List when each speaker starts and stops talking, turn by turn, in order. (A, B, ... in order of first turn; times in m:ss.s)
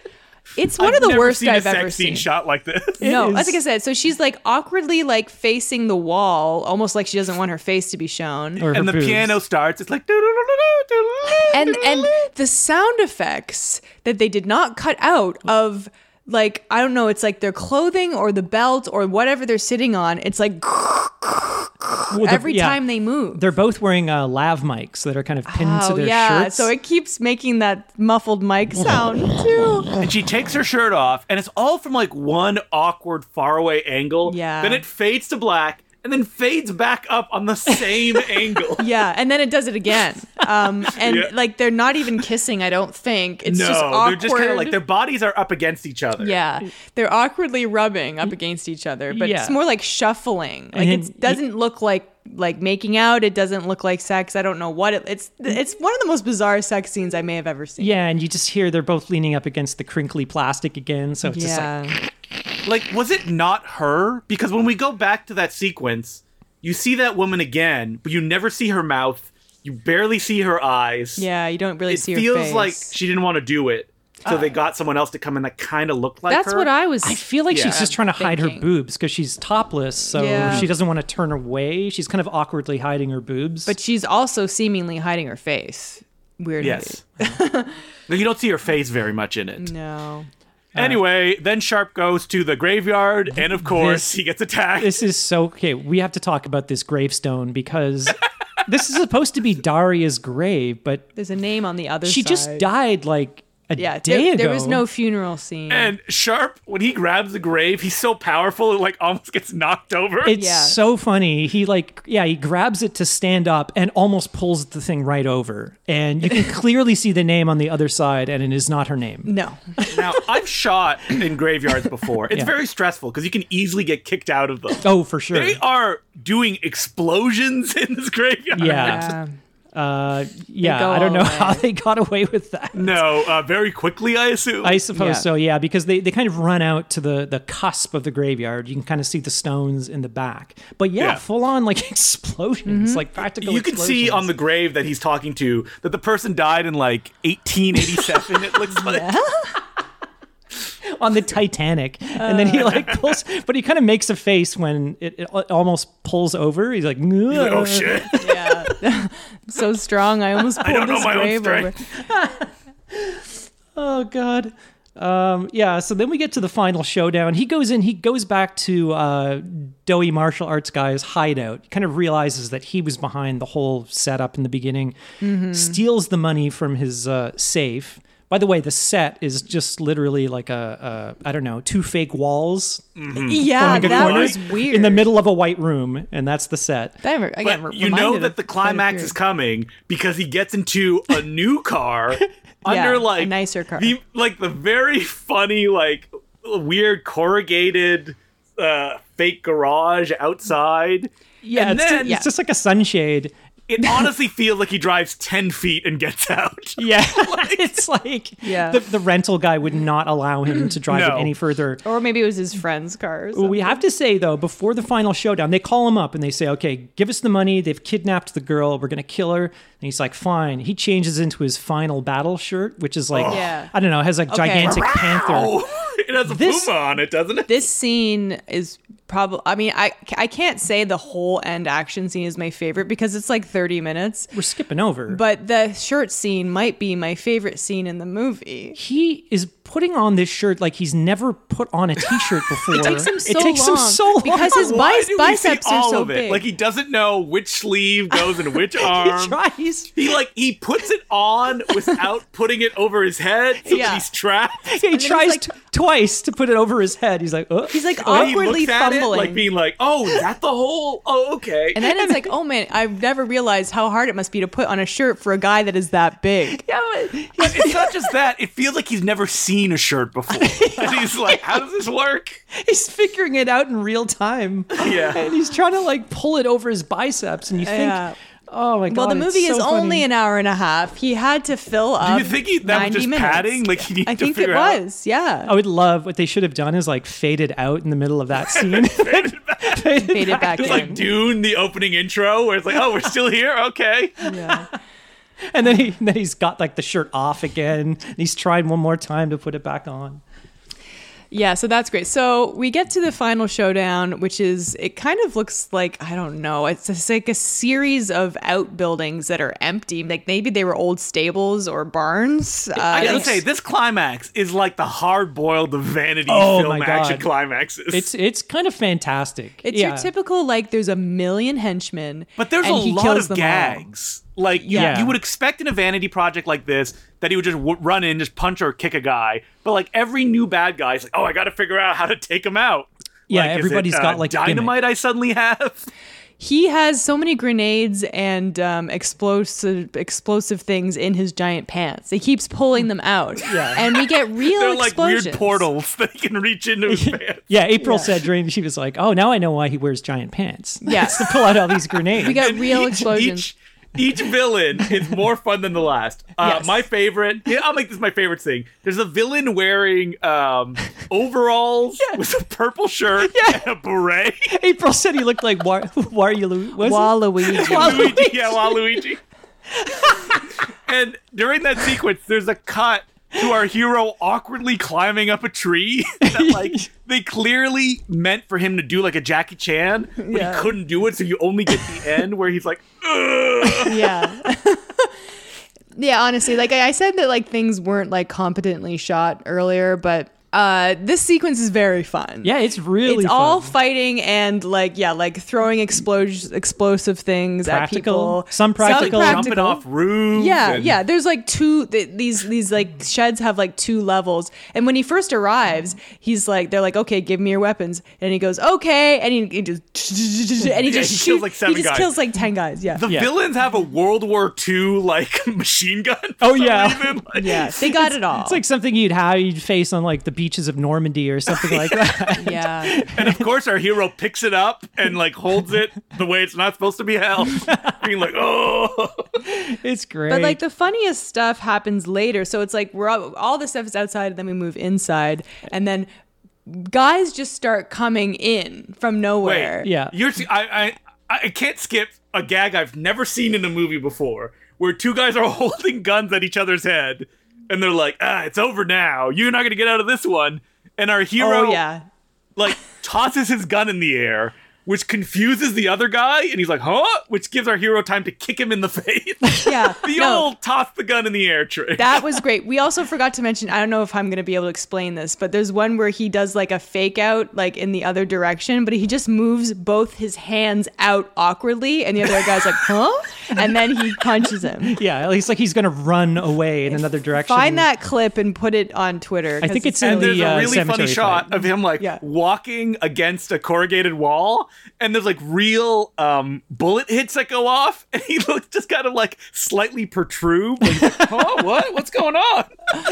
0:00.6-0:02.3 A
0:00.8-0:03.0 B
0:03.0-0:08.7 A
0:03.0-0:03.6 C
0:08.6-0:09.4 C
0:08.7-0:12.1 B
0:11.5-0:23.4 A
0:22.1-0:26.7 C
0:25.5-0:30.0 A
0:30.0-0:38.9 B
0:34.2-0:34.8 A
0:38.8-0:44.8 A
0:40.8-0:41.3 B
0:43.5-0:46.4 B
0:46.2-0:58.0 A
0:49.1-0:49.6 C
0:50.7-0:51.4 C
0:57.8-1:01.7 C
1:01.2-1:02.0 A
1:02.6-1:11.3 B
1:11.2-1:12.9 A
1:11.9-1:16.7 B
1:16.3-1:18.7 A
1:17.0-1:23.7 C
1:17.5-1:17.8 B
1:20.1-1:20.7 A
1:20.4-1:20.7 B
1:23.7-1:27.8 A
1:26.6-1:27.0 B
1:28.1-1:29.7 B
1:29.6-1:30.3 A
1:30.8-1:31.0 C
1:30.8-1:35.0 B
1:33.5-1:34.1 C
1:34.8-1:41.1 C
1:41.2-1:42.7 A
1:42.0-1:44.8 C
1:43.8-1:45.9 A
1:45.7-1:50.4 B
1:50.2-2:00.1 C
1:50.3-1:50.8 A
1:59.3-1:59.7 A
1:59.9-2:09.1 B
2:04.8-2:05.6 C
2:08.6-2:09.2 C
2:08.6-2:09.3 A
2:09.7-2:13.2 C
2:10.6-2:11.6 A
2:12.8-2:14.8 B
2:14.6-2:24.3 C
2:14.9-2:15.3 A
2:22.7-2:23.0 A
2:23.4-2:29.1 B
2:28.7-2:29.6 A
2:30.8-2:38.8 C
2:32.2-2:32.9 A
2:37.3-2:38.2 B
2:38.2-2:41.8 A
2:40.6-2:41.7 B
2:41.9-2:55.0 C
2:55.2-2:55.8 A
2:55.5-3:02.8 C
3:03.0-3:04.4 B
3:03.2-3:05.1 A
3:03.4-3:07.0 C
3:07.0-3:09.2 A
3:07.4-3:22.2 B
3:12.7-3:14.0 A
3:21.4-3:23.3 C
3:21.7-3:22.3 A
3:23.7-3:27.7 B
3:26.8-3:31.8 C
3:28.4-3:28.8 A
3:30.9-3:31.3 B
3:31.8-3:33.8 A
3:33.3-3:45.6 C
3:43.1-3:43.4 B
3:43.3-3:43.7 A
3:44.3-3:44.8 A
3:44.6-3:47.6 B
3:46.3-3:46.7 C
3:47.5-3:54.3 A
3:54.3-3:55.2 C
3:55.1-3:58.8 A
3:58.8-4:04.8 C
4:02.7-4:06.4 A
4:04.4-4:09.4 B
4:08.8-4:09.9 C
4:10.0-4:14.8 B
4:13.6-4:14.0 A
4:14.7-4:18.4 C
4:14.9-4:15.5 A
4:17.7-4:19.5 A
4:18.1-4:21.8 B
4:21.8-4:27.9 A
4:22.0-4:22.3 C
4:26.7-4:27.9 C
4:27.4-4:32.4 B
4:30.5-4:31.4 C
4:32.5-4:40.1 C
4:34.8-4:35.3 B
4:37.6-4:38.2 A
4:38.9-4:45.5 A
4:42.0-4:44.8 B
4:45.5-4:51.1 C
4:48.4-4:54.3 B
4:49.9-4:51.0 A
4:54.2-4:54.7 A
4:55.5-5:00.2 C
5:01.3-5:13.4 A
5:12.8-5:18.1 B
5:13.0-5:13.4 C
5:16.3-5:17.3 C
5:17.9-5:20.1 C
5:19.6-5:23.8 A
5:22.4-5:35.9 B
5:24.6-5:25.1 A
5:24.7-5:25.2 C
5:33.3-5:34.8 C
5:36.4-5:45.7 A
5:43.4-5:43.9 C
5:44.0-5:47.5 B
5:46.9-5:52.5 C
5:47.8-5:48.1 A
5:50.8-5:53.5 A
5:52.2-6:04.6 B
6:04.5-6:08.8 C
6:06.8-6:08.4 A
6:07.5-6:09.2 B
6:09.8-6:10.4 C
6:10.9-6:24.2 B
6:16.2-6:16.8 C
6:20.2-6:20.8 A
6:23.8-6:25.2 A
6:26.0-6:39.6 A
6:32.4-6:33.8 C
6:37.6-6:39.8 C
6:38.8-6:40.9 B
6:40.3-6:53.0 A
6:50.8-6:52.2 B
6:53.0-6:57.8 B
6:53.1-6:53.3 C
6:56.4-7:03.5 C
6:57.3-6:58.6 A
7:01.5-7:02.4 B
7:02.4-7:03.0 A
7:03.0-7:09.4 B
7:07.6-7:08.0 C
7:09.4-7:10.6 C
7:10.3-7:16.1 A
7:16.7-7:19.9 A
7:19.4-7:31.8 B
7:19.8-7:20.2 C
7:31.4-7:32.0 A
7:32.6-7:42.4 B
7:39.6-7:40.5 A
7:42.0-7:55.0 A
7:54.9-7:57.9 C
7:56.9-8:00.9 A
7:59.6-8:01.7 C
8:00.0-8:12.7 B